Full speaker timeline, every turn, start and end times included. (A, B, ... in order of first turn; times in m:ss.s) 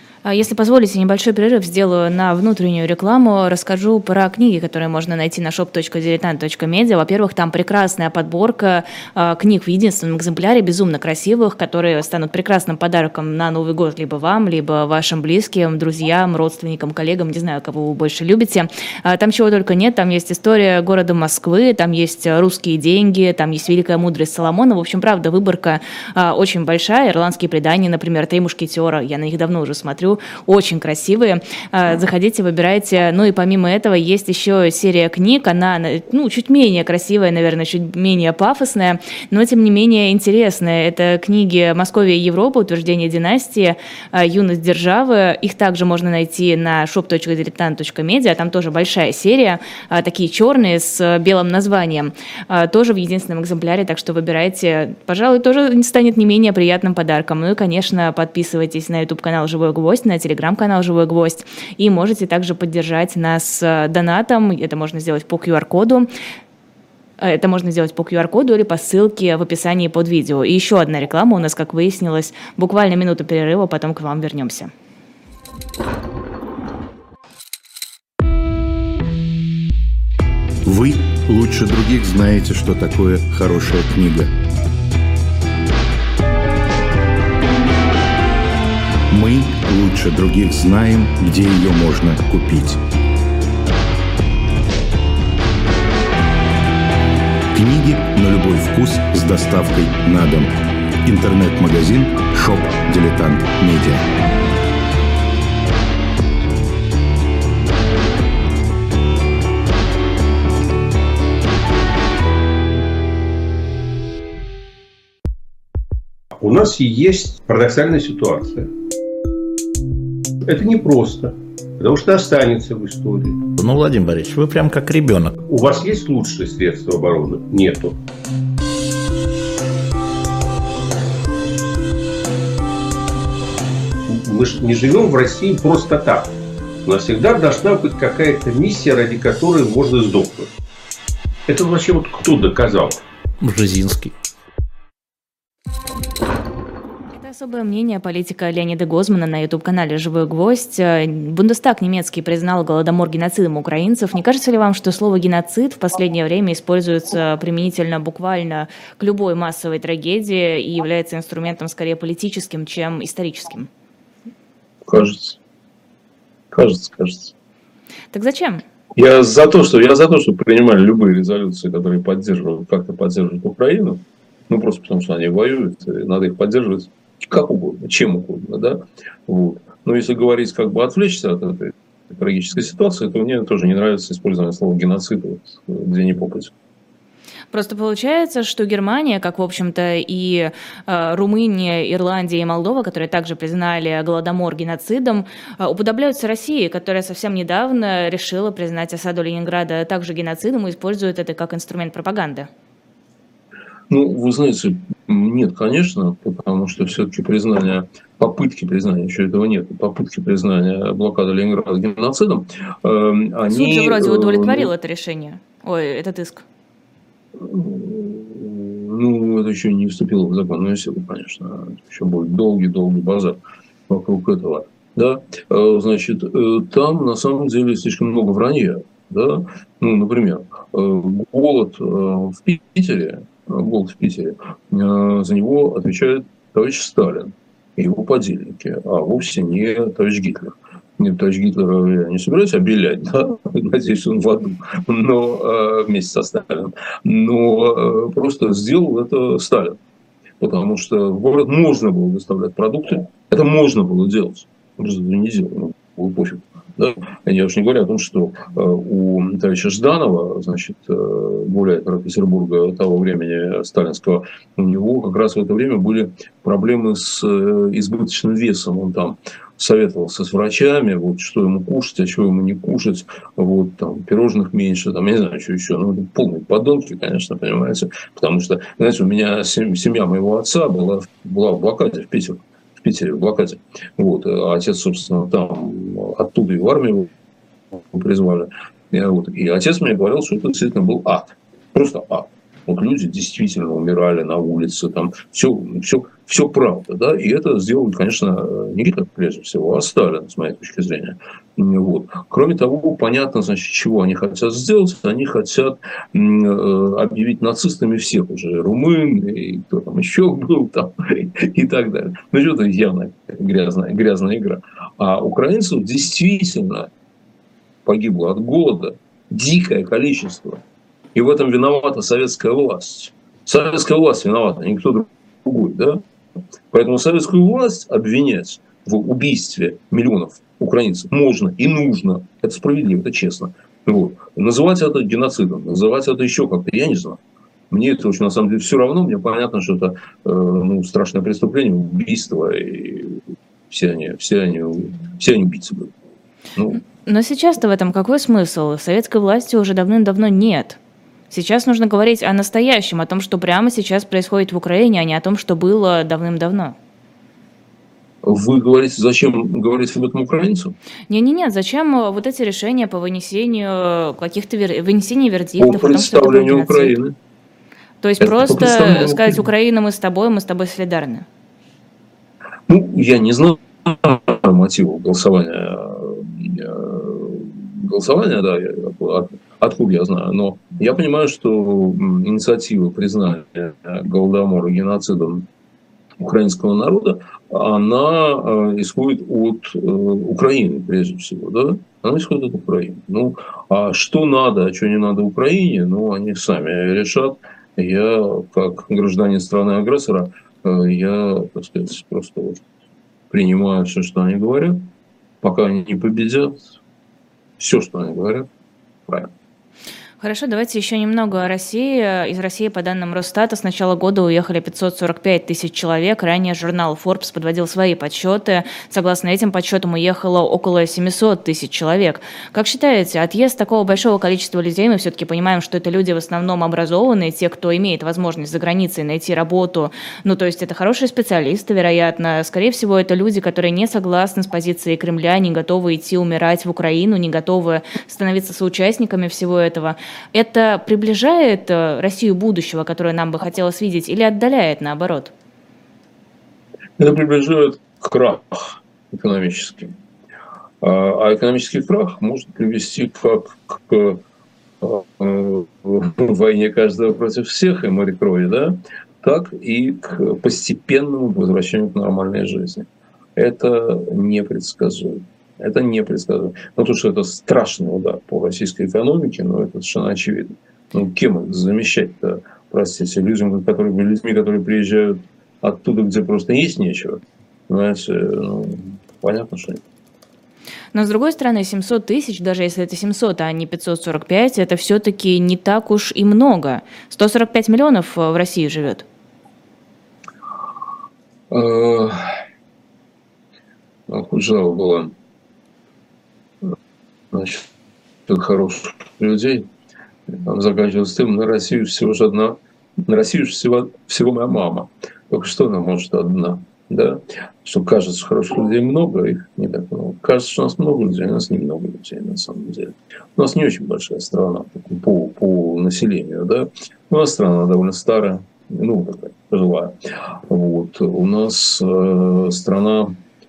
0:00.2-1:06.1 A
1:07.2-1:14.7 A
1:20.6-1:24.3 B
1:29.1-1:32.8 B
1:37.5-1:40.5 B
1:41.0-1:44.1 B
1:56.4-1:58.7 C
2:00.5-2:03.5 C
2:03.6-2:05.4 D
2:05.4-2:08.0 C
2:14.1-2:16.3 C
2:16.8-2:20.5 C
2:21.5-2:23.0 C
2:23.4-2:24.1 D
2:27.1-2:43.7 A
2:44.9-2:45.4 E
2:46.5-2:47.3 E
2:48.1-2:48.6 A
2:49.0-3:06.5 E
3:07.5-3:22.5 A
3:23.9-3:34.7 E
3:33.5-3:36.4 A
3:37.4-4:09.8 E
4:10.4-4:47.1 E
4:47.7-5:16.9 E
5:17.8-5:20.6 E
5:21.2-5:26.0 E
5:26.7-5:43.2 E
5:43.7-5:45.9 E
5:46.6-5:46.8 E
5:47.0-5:50.8 A
5:51.3-5:56.8 A
5:58.2-6:00.8 E
6:01.1-6:07.0 A
6:05.6-6:07.2 E
6:08.0-6:11.3 A
6:08.2-6:09.5 E
6:12.7-6:25.5 E
6:26.2-6:42.6 E
6:43.3-6:44.9 E
6:45.4-6:46.7 E
6:47.6-6:48.5 E
6:50.2-7:25.3 A
7:27.0-7:29.9 E
7:30.8-7:34.2 E
7:34.8-7:59.8 E
8:00.9-8:09.0 A
8:11.5-8:12.2 E
8:14.1-8:15.1 E
8:17.3-8:17.7 E
8:18.3-8:19.7 E
8:20.3-8:43.2 E